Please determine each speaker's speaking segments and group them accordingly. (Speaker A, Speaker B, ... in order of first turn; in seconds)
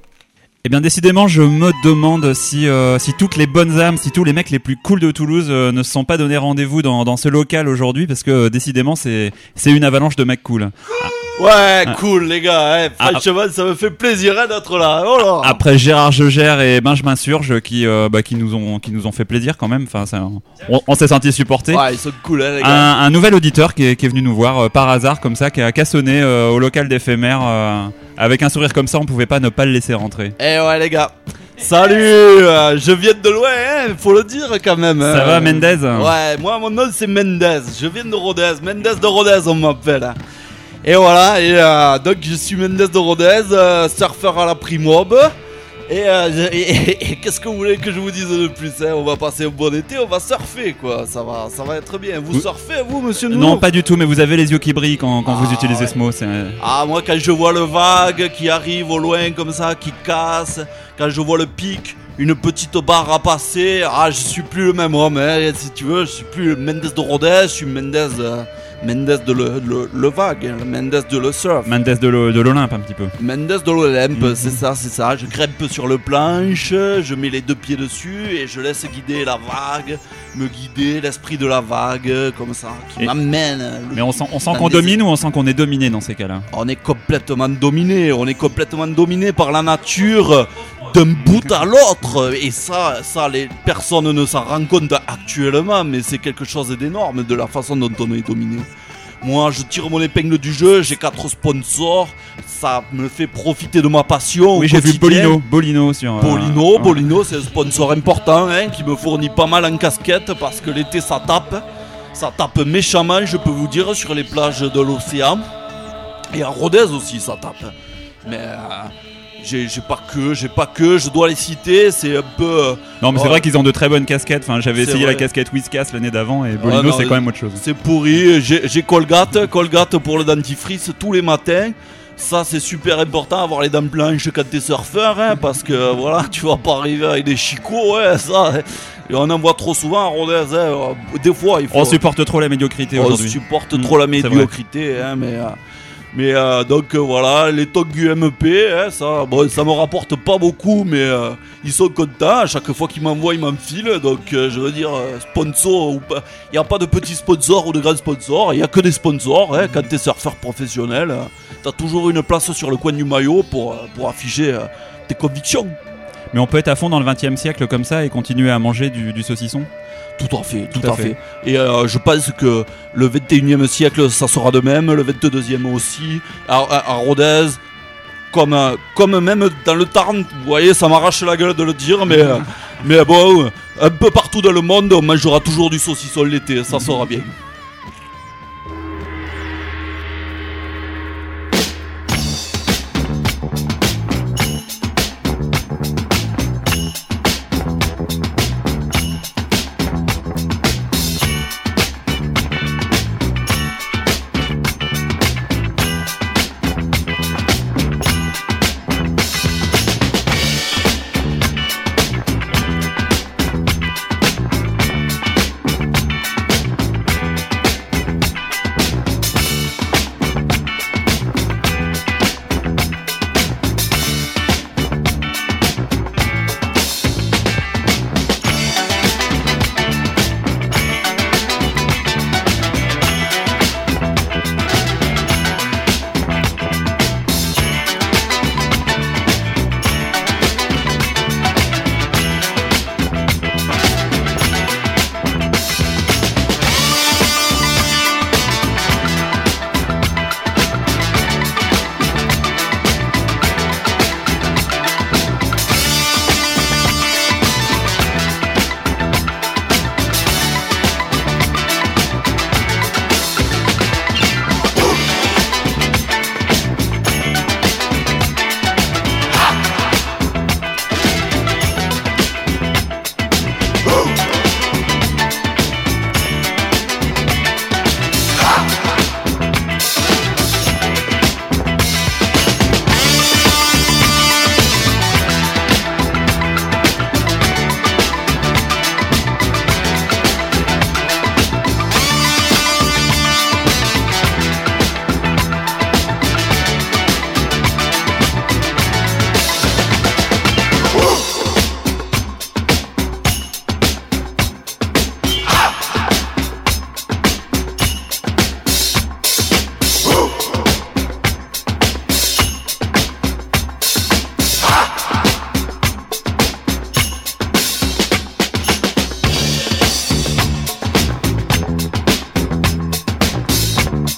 Speaker A: 0.6-11.1, 15.4-21.8, 22.6-30.4, 35.0-36.1, 53.3-56.6, 71.7-73.1, 74.2-74.5, 83.9-86.5, 104.5-107.0, 123.0-127.6, 141.7-144.5, 166.3-169.7, 170.8-171.1
Speaker B: 11.4-15.6, 21.7-22.9, 30.4-40.2, 40.8-45.4, 45.9-53.6, 55.4-55.9, 56.6-71.7, 73.2-85.0, 86.5-98.7, 99.2-105.4, 106.2-115.5, 116.3-123.5, 124.8-125.3, 126.6-142.0, 143.0-145.6, 146.1-165.8, 170.2-177.6, 178.3-187.3